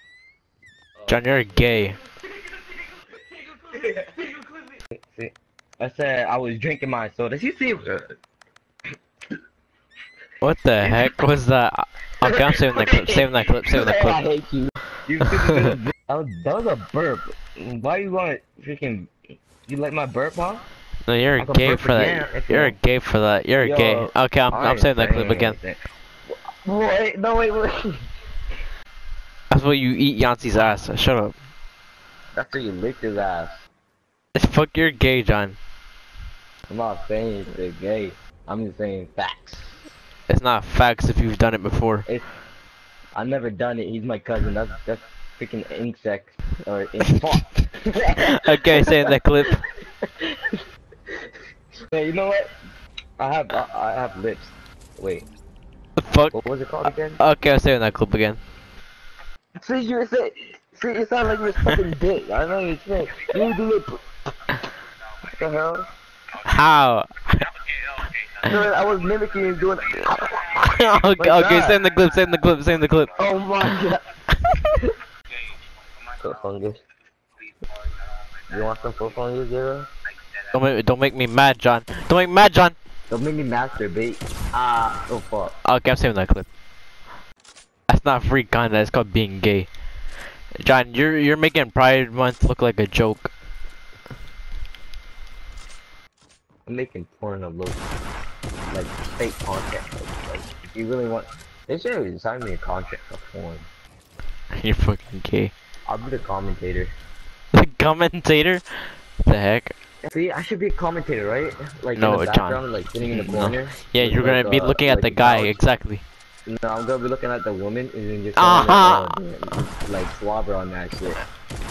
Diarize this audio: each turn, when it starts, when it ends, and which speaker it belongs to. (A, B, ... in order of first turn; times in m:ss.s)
0:01.1-0:02.0 A
0:03.6-0:08.1 B
0:10.4-0:14.2 A
0:10.8-0:11.1 B
0:12.2-0:19.1 B
0:19.6-0:20.6 B
0:21.0-0:25.6 A
0:21.4-0:22.8 B
0:23.6-0:28.0 B
0:29.5-0:31.4 A
0:32.4-0:33.6 B
0:34.4-0:35.6 A
0:36.7-0:39.8 B
0:40.3-0:42.1 A
0:42.0-0:42.3 B
0:43.2-0:49.0 B
0:48.3-0:49.6 A
0:51.9-0:52.5 B
0:53.2-0:55.3 B
0:56.0-0:56.3 A
0:56.3-0:57.2 B
0:57.2-0:58.4 A
0:59.6-1:04.0 B
1:05.3-1:05.9 B
1:06.5-1:07.5 A
1:08.4-1:10.5 B
1:10.5-1:13.1 A
1:11.2-1:11.8 B
1:13.2-1:14.0 B
1:14.4-1:14.8 A
1:16.2-1:16.8 B
1:18.5-1:19.9 B
1:20.5-1:22.8 A
1:23.1-1:25.6 B
1:25.6-1:26.5 A
1:27.9-1:29.7 A
1:30.5-1:33.3 A
1:36.7-1:37.8 B
1:38.7-1:43.7 B
1:44.5-1:45.5 A
1:45.9-1:47.0 B
1:47.5-1:49.8 A
1:50.0-1:55.6 B
1:52.0-1:56.0 A
1:56.5-2:01.2 B
1:58.4-1:59.2 A